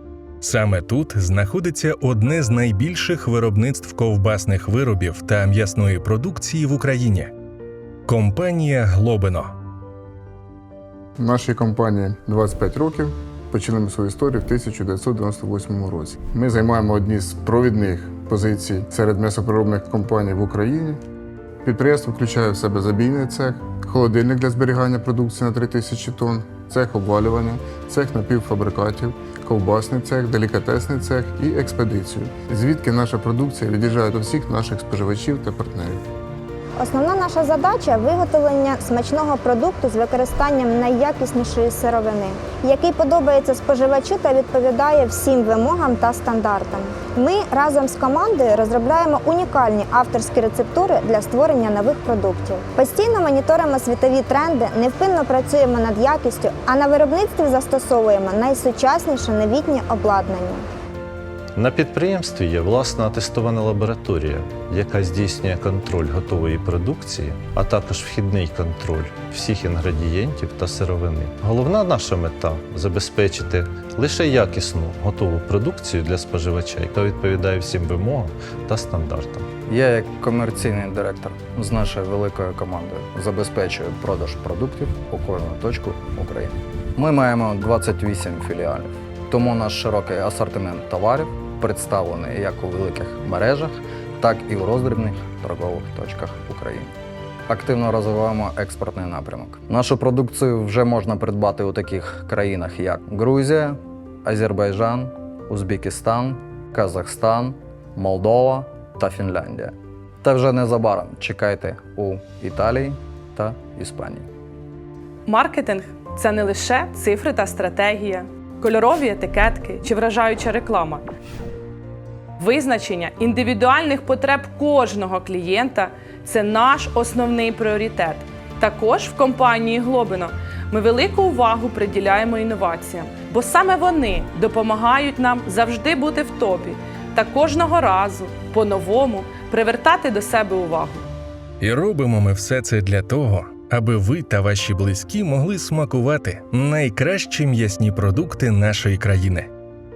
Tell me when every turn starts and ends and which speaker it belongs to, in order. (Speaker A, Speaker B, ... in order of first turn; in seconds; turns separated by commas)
Speaker A: 0.4-7.3, Speaker A: 8.1-9.5, Speaker B: 11.2-21.0, Speaker B: 21.6-36.0, Speaker C: 36.8-60.6, Speaker D: 61.6-79.4, Speaker E: 79.7-96.9, Speaker E: 97.5-114.3, Speaker F: 115.3-121.0, Speaker F: 122.4-141.0, Speaker A: 141.6-149.5